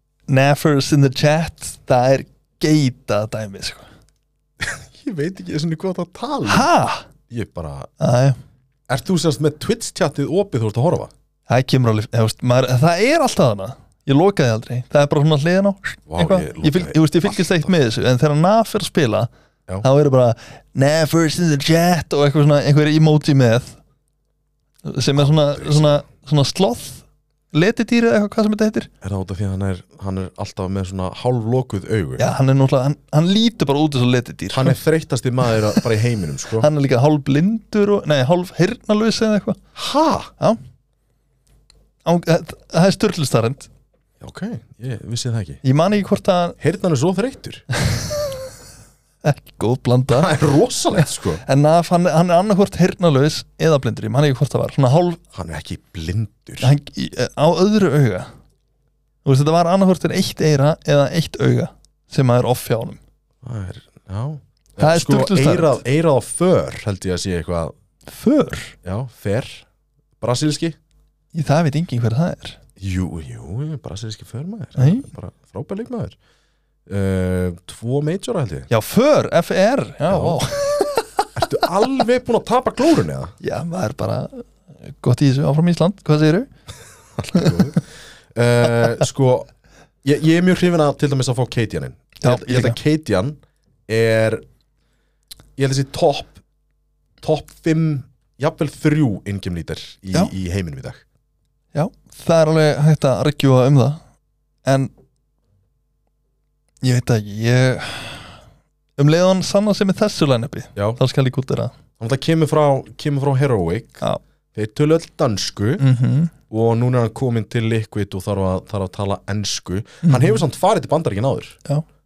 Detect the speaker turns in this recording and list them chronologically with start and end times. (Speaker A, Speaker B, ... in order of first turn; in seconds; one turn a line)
Speaker A: 0.3-3.9
Speaker B: 4.6-6.7
Speaker A: 6.5-7.1
Speaker B: 7.3-7.9
Speaker A: 8.0-8.4
Speaker B: 8.9-11.1
Speaker A: 11.5-19.3
Speaker B: 16.1-17.7
Speaker A: 19.8-23.8
Speaker A: 24.8-28.9
Speaker B: 25.1-26.0
Speaker B: 29.0-32.3
Speaker A: 32.2-34.8
Speaker B: 34.5-36.7
Speaker A: 36.6-39.6
Speaker B: 39.8-40.3
Speaker A: 42.0-43.7
Speaker B: 44.2-45.6
Speaker A: 45.6-46.6
Speaker B: 46.6-47.6
Speaker A: 47.8-48.4
Speaker A: 49.2-50.3
Speaker B: 50.1-51.4
Speaker A: 51.0-55.2
Speaker B: 55.3-56.7
Speaker A: 56.6-58.3
Speaker A: 59.2-63.0
Speaker B: 63.4-67.7
Speaker A: 64.8-65.8
Speaker A: 68.1-68.8
Speaker B: 68.8-69.6
Speaker B: 70.2-70.8
Speaker A: 71.3-72.6
Speaker B: 72.8-76.2
Speaker A: 74.8-75.1
Speaker B: 76.9-78.7
Speaker A: 78.7-81.3
Speaker B: 80.1-80.4
Speaker B: 81.3-83.3
Speaker A: 83.4-86.5
Speaker B: 87.2-89.5
Speaker A: 87.3-87.8
Speaker B: 90.0-93.4
Speaker A: 92.2-92.8
Speaker B: 93.9-94.4
Speaker B: 95.6-96.4
Speaker B: 97.2-101.0
Speaker A: 101.7-104.0
Speaker A: 104.7-104.9
Speaker A: 106.8-108.4
Speaker A: 109.0-111.7
Speaker B: 112.0-114.0
Speaker B: 114.5-115.8
Speaker A: 115.8-116.3
Speaker B: 116.5-121.6
Speaker A: 120.0-120.4